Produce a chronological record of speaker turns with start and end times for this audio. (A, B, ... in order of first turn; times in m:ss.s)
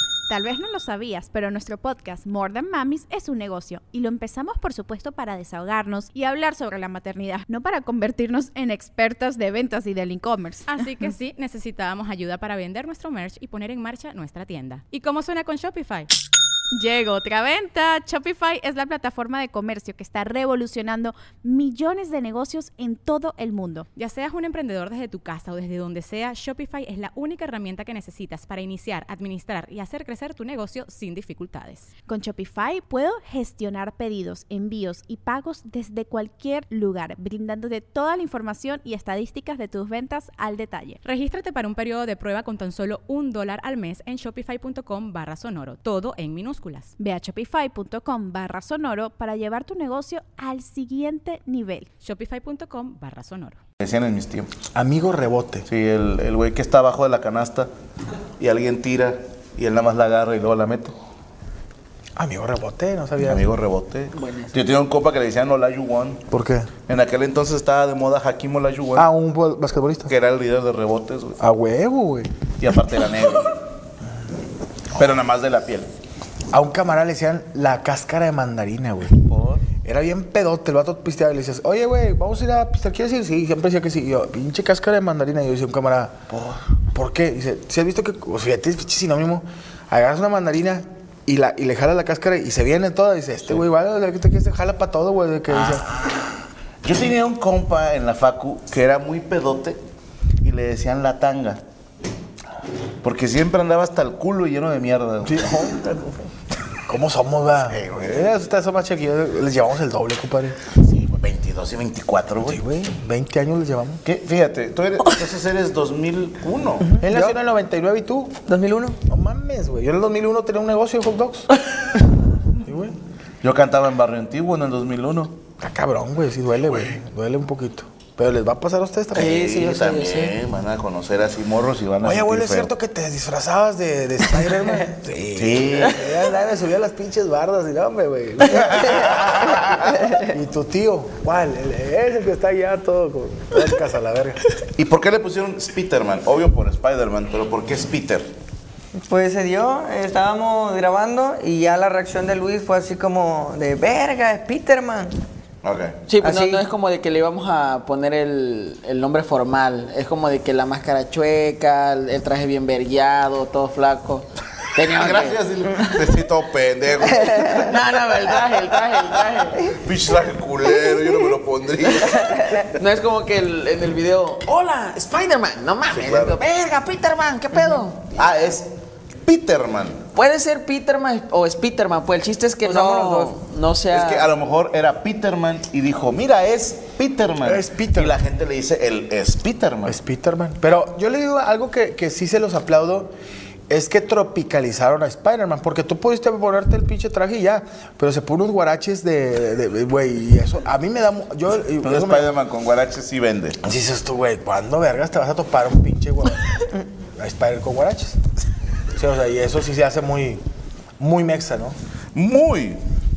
0:00.3-0:11.1 A
0:10.7-0:16.1 B
0:16.7-0:23.9 A
0:24.0-0:31.9 B
0:32.1-0:41.0 A
0:41.0-0:46.9 B
0:47.0-0:51.9 A
0:52.0-0:53.6 B
0:53.8-0:54.5 C
0:54.8-0:55.7 D
0:55.7-0:57.7 C
0:58.4-1:01.0 C
1:02.2-1:03.5 D
1:03.2-1:06.3 C
1:04.2-1:04.6 E
1:06.3-1:06.7 D
1:06.9-1:09.1 C
1:09.0-1:10.1 D
1:10.1-1:11.4 C
1:11.4-1:12.3 D
1:12.6-1:13.6 C
1:14.9-1:15.9 C
1:16.5-1:19.2 D
1:19.2-1:19.7 C
1:19.8-1:35.9 D
1:35.5-1:35.9 C
1:36.8-1:39.8 C
1:40.4-1:41.6 C
1:43.0-1:46.0 C
1:45.2-1:46.0 D
1:46.9-1:50.6 D
1:47.6-1:48.3 C
1:50.8-1:52.6 C
1:52.5-1:54.0 D
1:54.0-1:57.0 C
1:57.0-1:58.4 D
1:58.5-1:59.0 F
1:59.1-2:01.5 D
2:02.6-2:03.0 D
2:03.4-2:05.4 C
2:05.6-2:09.3 D
2:09.1-2:12.7 C
2:09.2-2:10.3 E
2:12.0-2:24.4 D
2:15.3-2:16.1 C
2:18.8-2:19.9 C
2:24.8-2:28.3 C
2:29.0-2:35.2 F
2:35.6-2:36.0 C
2:36.1-2:45.4 E
2:36.2-2:36.6 F
2:44.8-2:47.8 C
2:47.5-2:49.8 E
2:49.7-2:52.7 C
2:52.6-2:58.2 E
2:55.9-2:56.4 C
2:58.1-2:58.7 C
2:59.2-3:00.0 C
3:00.1-3:04.3 E
3:02.6-3:03.3 F
3:03.9-3:10.0 C
3:07.4-3:08.2 D
3:09.9-3:13.1 D
3:13.7-3:22.3 D
3:21.8-3:23.6 C
3:23.6-3:28.2 D
3:28.9-3:30.4 D
3:31.0-3:31.8 D
3:32.1-3:32.8 C